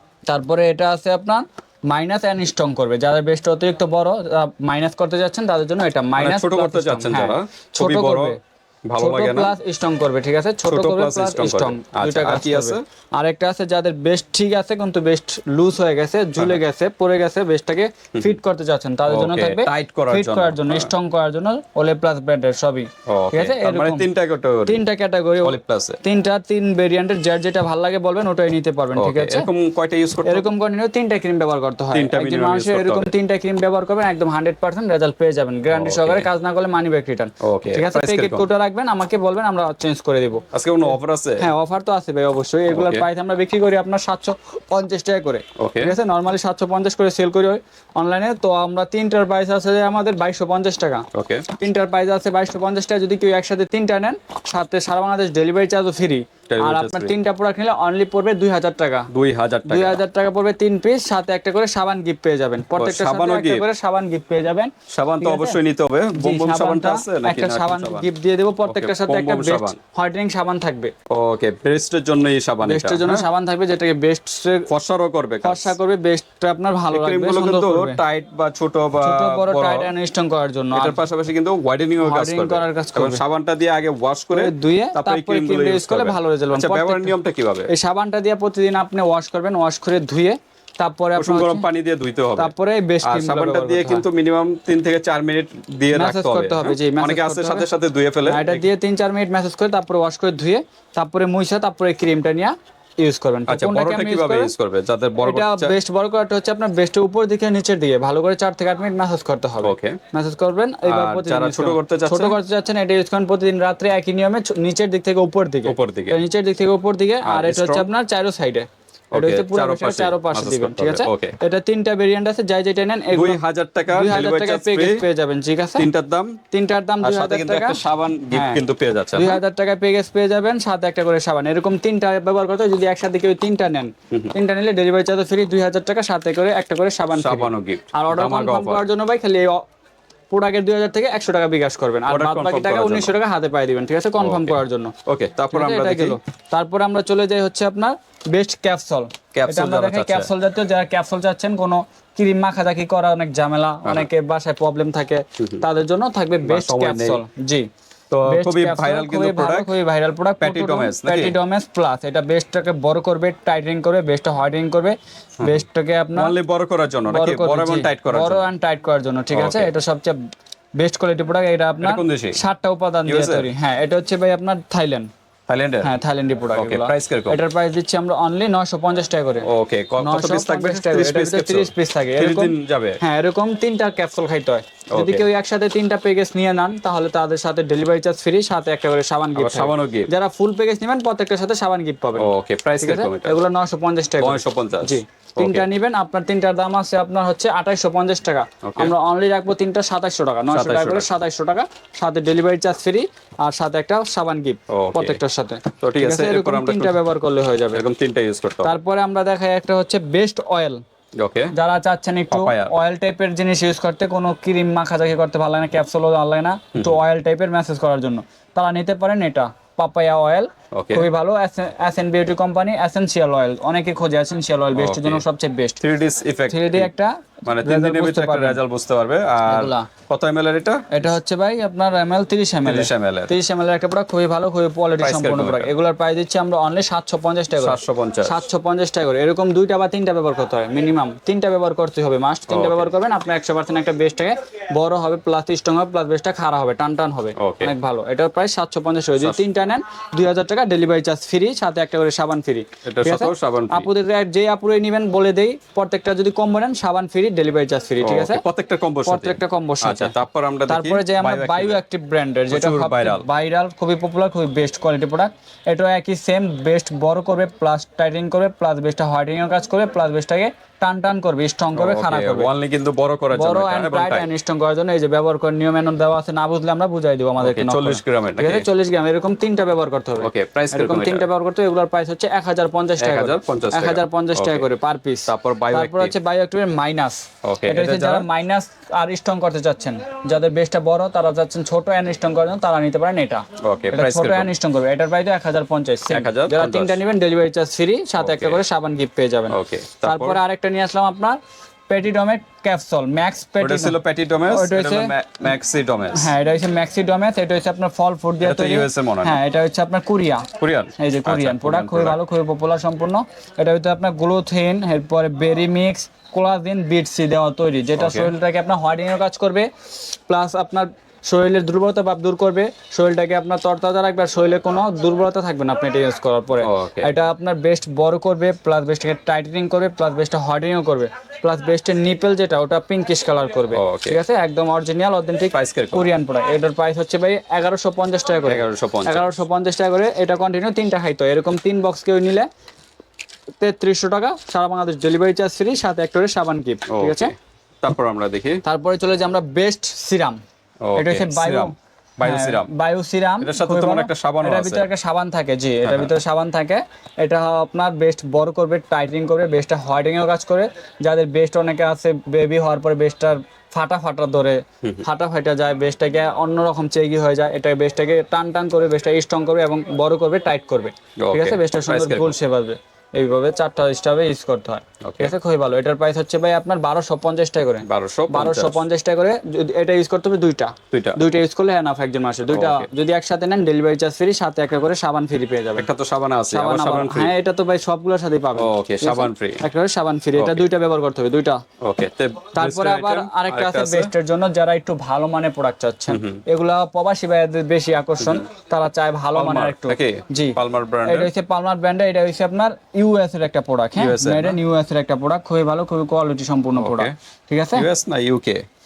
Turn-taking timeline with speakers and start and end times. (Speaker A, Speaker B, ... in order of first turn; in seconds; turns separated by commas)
Speaker A: 0.3-8.4, Speaker B: 6.2-9.5, Speaker A: 9.0-24.1, Speaker B: 10.7-12.8, Speaker B: 19.1-20.9, Speaker B: 23.1-24.9, Speaker A: 24.7-29.5, Speaker B: 25.4-26.0, Speaker B: 28.9-30.5, Speaker A: 30.3-40.4, Speaker B: 31.9-33.1, Speaker B: 35.7-36.3, Speaker B: 37.4-38.5, Speaker B: 40.5-41.5, Speaker A: 41.4-51.1, Speaker B: 42.7-43.1, Speaker B: 45.6-46.0, Speaker B: 51.1-51.5, Speaker A: 51.6-59.1, Speaker B: 56.5-57.1, Speaker B: 59.1-60.0, Speaker A: 59.7-65.6, Speaker B: 62.8-63.7, Speaker B: 64.9-68.1, Speaker A: 66.1-70.9, Speaker B: 68.7-69.8, Speaker B: 71.1-73.3, Speaker A: 72.6-74.7, Speaker B: 74.7-75.8, Speaker A: 75.4-78.0, Speaker B: 76.9-79.9, Speaker A: 79.0-81.0, Speaker B: 80.7-87.7, Speaker A: 82.0-83.2, Speaker A: 84.3-87.2, Speaker A: 87.7-91.7, Speaker B: 91.2-98.7, Speaker A: 92.4-94.0, Speaker A: 95.9-97.7, Speaker A: 98.3-104.5, Speaker B: 103.5-105.8, Speaker A: 105.2-125.9, Speaker B: 109.6-110.0, Speaker B: 110.9-112.4, Speaker B: 115.7-116.2, Speaker B: 117.2-117.9, Speaker B: 119.1-121.4, Speaker B: 123.1-125.0, Speaker B: 125.8-126.4, Speaker A: 126.5-128.6, Speaker B: 127.0-129.4, Speaker A: 129.1-139.7, Speaker B: 137.1-138.9, Speaker A: 140.3-144.9, Speaker B: 142.1-143.2, Speaker B: 144.2-146.2, Speaker A: 145.5-157.7, Speaker B: 149.3-150.3, Speaker B: 153.8-154.1, Speaker B: 156.4-157.2, Speaker B: 158.1-159.8, Speaker A: 158.3-166.3, Speaker B: 160.4-161.4, Speaker B: 166.2-168.5, Speaker A: 167.1-170.2, Speaker B: 169.3-169.7, Speaker A: 170.8-175.1, Speaker B: 171.8-172.4, Speaker B: 173.1-173.5, Speaker B: 175.5-175.9, Speaker A: 175.8-179.5, Speaker B: 176.5-177.4, Speaker B: 179.4-183.0, Speaker A: 180.0-207.8, Speaker B: 184.9-185.2, Speaker B: 189.4-190.1, Speaker B: 192.2-193.4, Speaker B: 194.2-195.7, Speaker B: 198.6-198.9, Speaker B: 200.5-201.1, Speaker B: 204.7-205.2, Speaker B: 205.8-207.0, Speaker B: 207.7-208.8, Speaker A: 208.6-210.8, Speaker B: 211.2-211.5, Speaker A: 211.5-225.8, Speaker B: 212.3-212.7, Speaker B: 216.7-217.0, Speaker B: 220.7-221.1, Speaker B: 224.8-225.2, Speaker B: 225.8-226.9, Speaker A: 226.5-228.6, Speaker B: 227.5-230.9, Speaker A: 229.4-229.9, Speaker A: 230.9-258.4, Speaker B: 232.7-233.3, Speaker B: 235.0-235.7, Speaker B: 237.6-238.4, Speaker B: 242.5-242.9, Speaker B: 247.4-247.7, Speaker B: 249.2-249.4, Speaker B: 252.8-253.9, Speaker B: 258.0-261.8, Speaker A: 259.1-260.1, Speaker A: 260.7-272.5, Speaker B: 262.5-263.3, Speaker B: 271.7-274.3, Speaker A: 273.3-304.0, Speaker B: 277.4-278.7, Speaker B: 280.2-281.3, Speaker B: 283.0-284.7, Speaker B: 285.3-286.1, Speaker B: 287.4-288.3, Speaker B: 293.6-294.5, Speaker B: 296.1-297.0, Speaker B: 298.2-298.6, Speaker B: 299.5-300.4, Speaker B: 303.6-306.3, Speaker A: 304.5-305.1, Speaker A: 306.1-342.5, Speaker B: 308.4-309.4, Speaker B: 310.6-312.2, Speaker B: 318.0-318.3, Speaker B: 326.6-327.1, Speaker B: 333.7-334.2, Speaker B: 335.5-336.1, Speaker B: 338.4-339.4, Speaker A: 343.6-347.3, Speaker B: 346.9-348.6, Speaker A: 348.6-350.4, Speaker B: 350.8-352.7, Speaker A: 351.0-385.9, Speaker B: 353.4-354.9, Speaker B: 355.8-356.1, Speaker B: 371.2-372.4, Speaker B: 375.0-375.3, Speaker B: 377.8-378.8, Speaker B: 380.9-381.2, Speaker B: 382.5-382.9, Speaker B: 385.8-387.4, Speaker A: 386.5-391.6, Speaker B: 388.6-389.6, Speaker B: 390.4-390.6, Speaker B: 391.8-394.1, Speaker A: 392.6-407.9, Speaker B: 396.1-396.4, Speaker B: 398.2-398.4, Speaker B: 399.3-401.3, Speaker B: 404.0-404.6, Speaker B: 406.8-407.1, Speaker B: 407.7-408.6